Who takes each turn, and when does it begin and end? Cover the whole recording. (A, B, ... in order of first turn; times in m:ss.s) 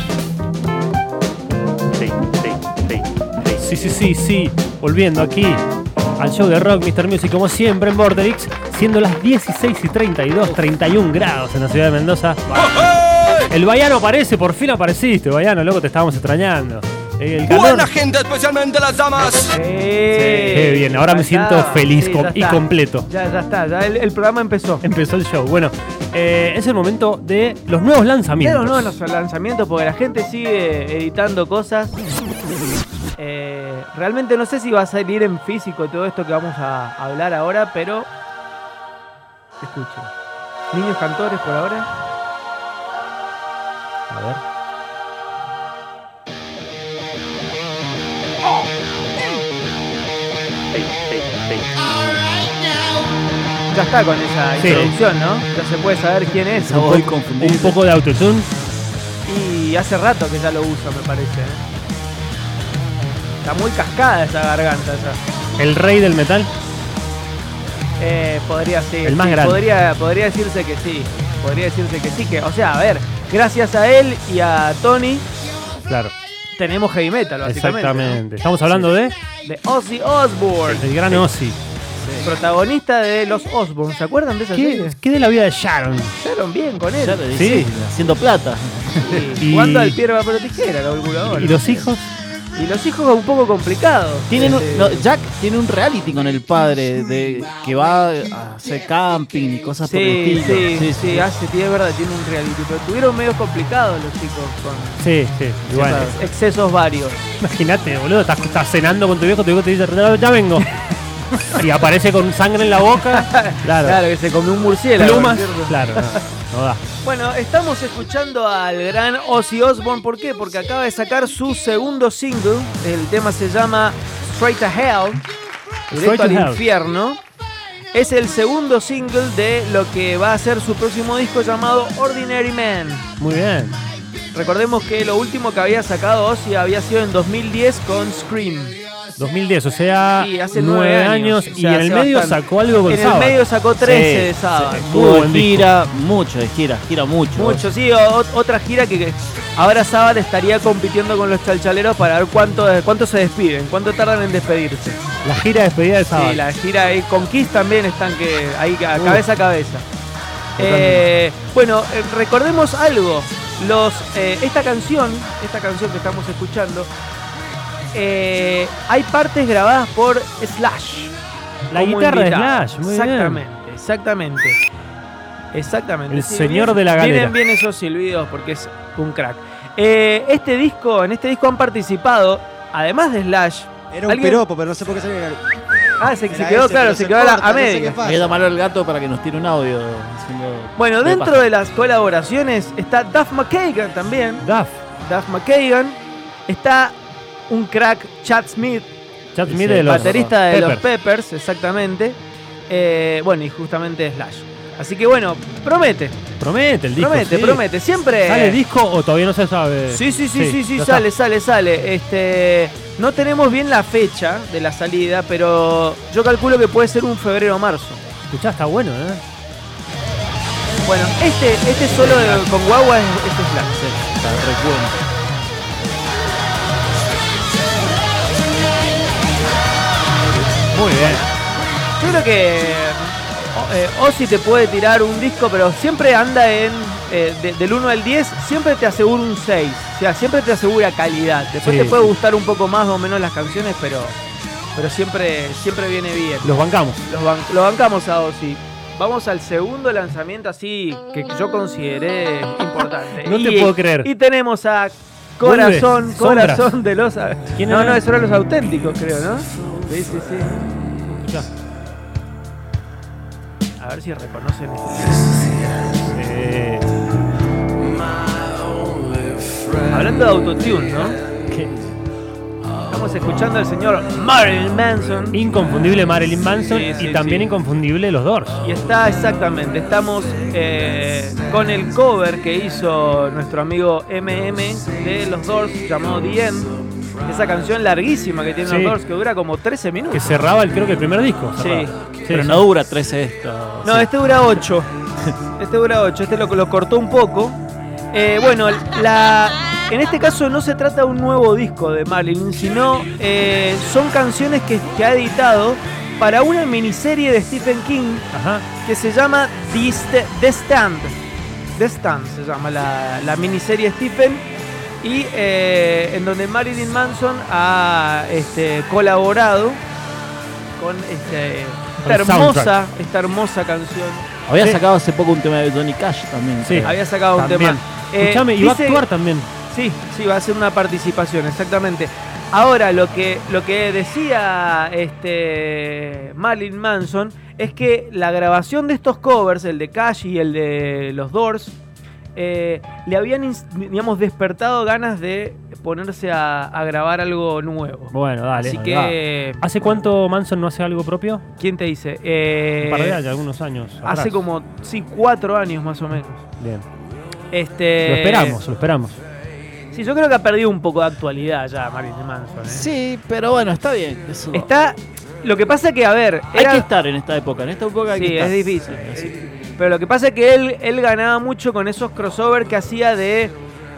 0:01.9-0:05.6 A
0:06.2-0:12.9 A
0:13.5-0:18.0 A
0:17.5-0:19.5 B
0:19.4-0:24.8 C
0:20.2-0:20.6 D
0:20.5-0:23.1 A
0:24.8-0:29.0 A
0:28.4-0:32.0 C
0:33.2-0:38.1 C
0:39.6-0:40.1 C
0:40.7-0:41.9 C
0:44.1-0:44.4 A
0:50.8-0:51.6 B
0:53.7-0:57.1 C
0:54.6-0:54.9 A
0:56.5-0:57.8 D
0:57.4-0:58.5 A
0:59.3-1:01.6 C
1:03.4-1:05.2 C
1:05.6-1:06.5 A
1:08.0-1:15.2 C
1:09.0-1:09.6 A
1:15.9-1:16.1 A
1:16.6-1:18.2 C
1:17.5-1:19.2 A
1:19.4-1:21.2 C
1:20.7-1:21.6 A
1:22.0-1:22.3 D
1:22.2-1:25.0 C
1:24.5-1:26.1 A
1:26.2-1:27.3 C
1:27.0-1:29.4 D
1:27.3-1:27.7 A
1:29.0-1:31.9 C
1:29.4-1:30.0 A
1:31.3-1:32.0 A
1:32.6-1:35.0 C
1:34.3-1:41.3 D
1:39.8-1:45.0 C
1:45.0-1:46.1 A
1:45.7-1:47.2 C
1:45.7-1:46.2 D
1:47.4-1:50.7 A
1:51.5-1:54.0 A
1:53.0-1:56.1 C
1:55.0-1:56.8 A
1:57.0-2:05.2 C
2:05.9-2:06.6 A
2:05.9-2:07.2 C
2:07.9-2:13.0 C
2:13.2-2:13.8 A
2:14.3-2:18.8 C
2:19.2-2:23.4 A
2:20.2-2:24.9 C
2:23.8-2:27.7 D
2:24.8-2:25.7 A
2:27.4-2:35.0 C
2:35.2-2:36.4 A
2:36.1-2:39.8 C
2:39.0-2:39.2 A
2:40.6-2:41.0 A
2:40.6-2:46.9 C
2:47.9-2:51.1 C
2:51.7-2:53.4 A
2:51.7-2:54.6 C
2:55.5-3:04.4 C
2:56.1-2:57.3 A
3:03.9-3:05.4 E
3:06.0-3:08.0 C
3:06.3-3:08.3 E
3:08.0-3:11.5 D
3:10.8-3:14.5 C
3:14.4-3:14.8 A
3:15.0-3:17.0 C
3:17.5-3:18.9 C
3:19.4-3:20.8 A
3:19.5-3:20.2 D
3:19.9-3:22.2 C
3:22.7-3:26.2 C
3:26.4-3:27.6 A
3:27.0-3:28.6 C
3:28.2-3:31.1 A
3:29.9-3:38.1 C
3:38.3-3:39.2 A
3:40.8-3:43.8 C
3:41.9-3:42.5 D
3:43.8-3:45.0 D
3:50.7-3:51.2 A
3:52.0-4:04.2 C
4:01.6-4:02.0 A
4:04.8-4:06.5 C
4:06.4-4:07.0 A
4:07.0-4:20.7 C
4:13.2-4:14.1 A
4:15.4-4:16.8 A
4:17.6-4:18.0 A
4:21.1-4:21.5 A
4:23.8-4:25.3 C
4:26.1-4:26.9 A
4:29.8-4:31.2 C
4:31.5-4:31.9 D
4:32.9-4:35.4 C
4:35.3-4:38.6 A
4:36.6-4:37.5 C
4:38.6-4:46.7 C
4:47.2-4:50.4 C
4:48.7-4:49.0 A
4:50.1-4:52.6 A
4:51.6-4:52.0 C
4:52.2-4:54.1 D
4:53.8-4:54.9 C
4:55.6-4:57.6 C
4:58.1-5:08.3 C
5:08.3-5:08.6 A
5:08.8-5:11.2 C
5:11.8-5:14.5 C
5:15.0-5:19.8 C
5:20.8-5:24.3 C
5:22.0-5:22.7 A
5:24.5-5:27.0 D
5:26.6-5:29.5 A
5:26.8-5:29.1 C
5:29.7-5:41.8 C
5:42.4-5:49.7 C
5:48.1-5:51.4 A
5:51.6-5:53.2 C
5:52.8-5:54.4 A
5:54.0-5:56.4 C
5:56.6-5:56.8 A
5:57.5-5:58.6 C
5:58.0-5:59.2 A
5:59.9-6:02.9 C
6:02.6-6:04.7 D
6:04.5-6:06.9 C
6:06.6-6:09.3 D
6:08.1-6:13.6 C